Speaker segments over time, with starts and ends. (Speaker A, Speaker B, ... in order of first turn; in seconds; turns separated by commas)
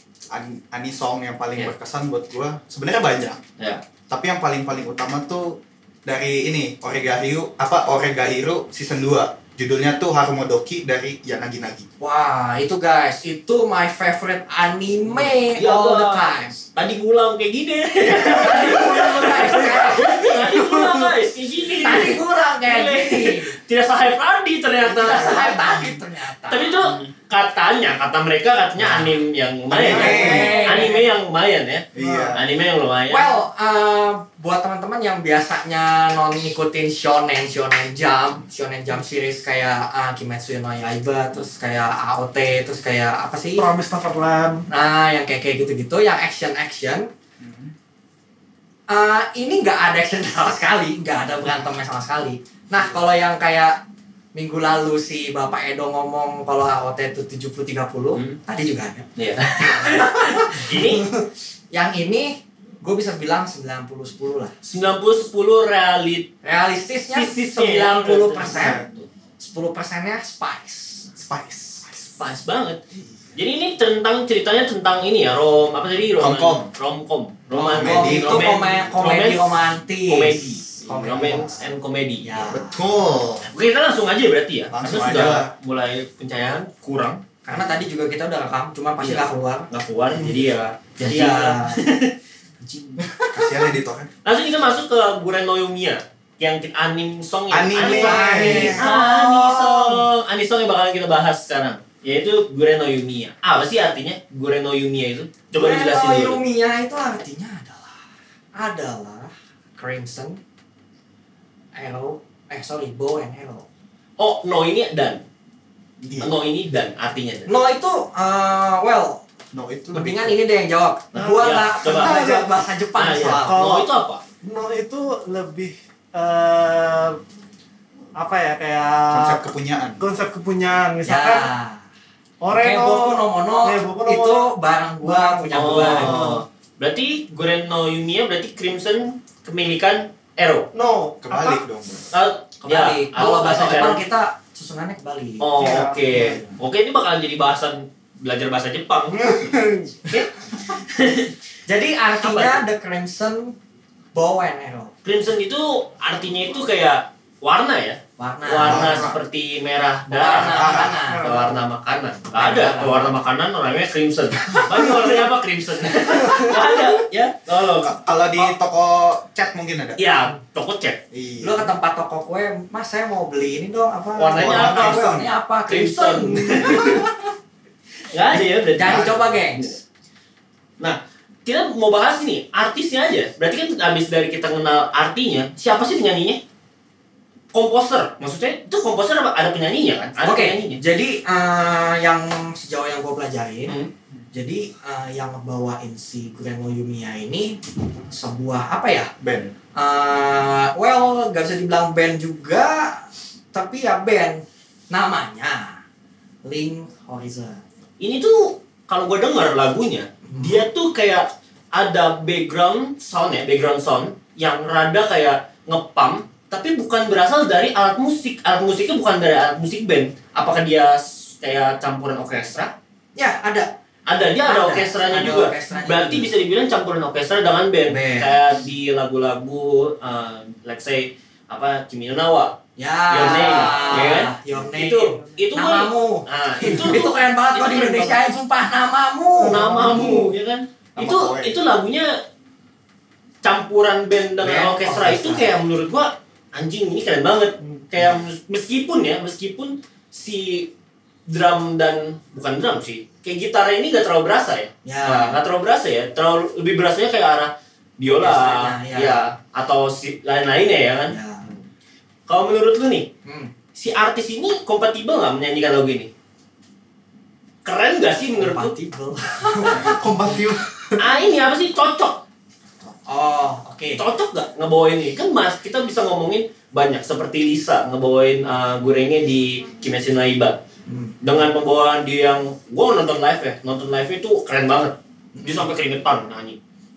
Speaker A: 0.3-3.4, Speaker A: 4.1-11.9, Speaker B: 12.0-16.6, Speaker C: 15.4-25.9, Speaker B: 18.1-20.7, Speaker A: 18.4-19.0, Speaker B: 21.8-23.6, Speaker B: 24.9-26.8, Speaker A: 25.1-25.9, Speaker C: 26.5-33.3, Speaker B: 28.8-29.1, Speaker B: 29.7-31.1, Speaker A: 29.8-30.6, Speaker D: 29.8-30.9, Speaker A: 31.9-32.4, Speaker D: 32.0-32.4, Speaker B: 33.1-43.7, Speaker D: 43.6-44.7, Speaker B: 44.7-47.1, Speaker A: 47.4-47.7, Speaker B: 48.9-53.8, Speaker B: 54.4-59.1, Speaker C: 58.1-58.4, Speaker C: 59.2-61.1, Speaker B: 59.6-61.1, Speaker B: 61.7-64.5, Speaker C: 64.6-66.3, Speaker B: 66.4-68.8, Speaker C: 67.1-69.1, Speaker A: 68.5-68.8, Speaker B: 69.4-71.1, Speaker A: 71.2-72.1, Speaker C: 72.2-72.8, Speaker C: 73.3-79.6, Speaker A: 76.2-76.7, Speaker B: 77.5-81.7, Speaker A: 77.6-79.0, Speaker C: 80.1-82.4, Speaker A: 81.1-81.4, Speaker B: 82.2-82.9, Speaker A: 82.5-83.5, Speaker C: 83.4-87.2, Speaker A: 84.7-85.5, Speaker B: 87.5-89.7, Speaker C: 89.0-93.0, Speaker B: 91.0-91.8, Speaker A: 93.3-94.1, Speaker C: 94.2-106.4, Speaker A: 97.5-99.0, Speaker B: 97.8-100.0, Speaker B: 105.5-108.0, Speaker B: 108.5-110.4, Speaker B: 111.8-113.7, Speaker C: 114.2-115.2, Speaker A: 116.0-116.3, Speaker C: 116.2-117.5, Speaker B: 117.5-119.2, Speaker A: 119.5-120.3, Speaker B: 119.9-123.6, Speaker C: 121.1-122.3, Speaker D: 122.0-122.5, Speaker C: 123.0-124.2, Speaker D: 123.3-123.9, Speaker D: 124.4-127.2, Speaker D: 128.2-129.5, Speaker A: 129.1-130.0, Speaker D: 130.0-131.5, Speaker B: 131.1-131.8, Speaker D: 132.4-136.4, Speaker B: 132.5-136.4, Speaker C: 135.5-140.7, Speaker D: 140.7-141.6, Speaker A: 141.2-142.1, Speaker C: 142.1-144.0, Speaker B: 142.6-145.5, Speaker C: 145.4-149.5, Speaker D: 145.6-146.4, Speaker D: 149.2-150.0, Speaker C: 150.1-151.3, Speaker B: 151.7-153.6, Speaker C: 152.2-152.6, Speaker B: 154.1-154.9, Speaker C: 155.0-168.5, Speaker B: 158.2-159.1, Speaker A: 158.6-159.2, Speaker B: 160.1-161.4, Speaker A: 160.4-161.0, Speaker D: 161.1-161.6, Speaker B: 162.3-163.2, Speaker A: 167.8-170.0, Speaker C: 170.0-171.0, Speaker A: 171.1-171.7, Speaker B: 171.4-177.2, Speaker C: 174.2-177.1, Speaker A: 174.3-175.3, Speaker C: 178.1-179.7, Speaker B: 178.7-179.8, Speaker A: 178.8-179.3, Speaker C: 180.8-186.4, Speaker C: 187.5-190.8, Speaker B: 190.2-193.8, Speaker B: 194.3-199.1, Speaker A: 199.2-199.5, Speaker B: 199.8-205.8, Speaker B: 206.4-207.6, Speaker C: 208.0-222.7, Speaker B: 210.3-210.7, Speaker B: 223.2-223.7, Speaker C: 224.1-232.6, Speaker B: 224.4-226.3, Speaker B: 227.9-228.4, Speaker B: 232.8-240.0, Speaker C: 233.1-238.3, Speaker D: 233.2-234.1, Speaker D: 239.4-240.3, Speaker C: 239.4-242.2, Speaker A: 241.0-241.6, Speaker C: 243.4-250.7, Speaker B: 244.4-245.5, Speaker C: 251.3-261.6, Speaker B: 254.8-255.4, Speaker B: 258.1-259.2, Speaker B: 261.1-261.5, Speaker C: 262.3-263.1, Speaker B: 263.2-263.5, Speaker C: 263.8-266.1, Speaker C: 267.6-268.8, Speaker B: 268.4-270.3, Speaker A: 269.8-270.6, Speaker D: 269.8-270.5, Speaker C: 271.0-272.2, Speaker B: 272.9-274.0, Speaker C: 274.0-280.6, Speaker B: 280.9-281.2, Speaker C: 281.2-286.6, Speaker B: 285.4-285.7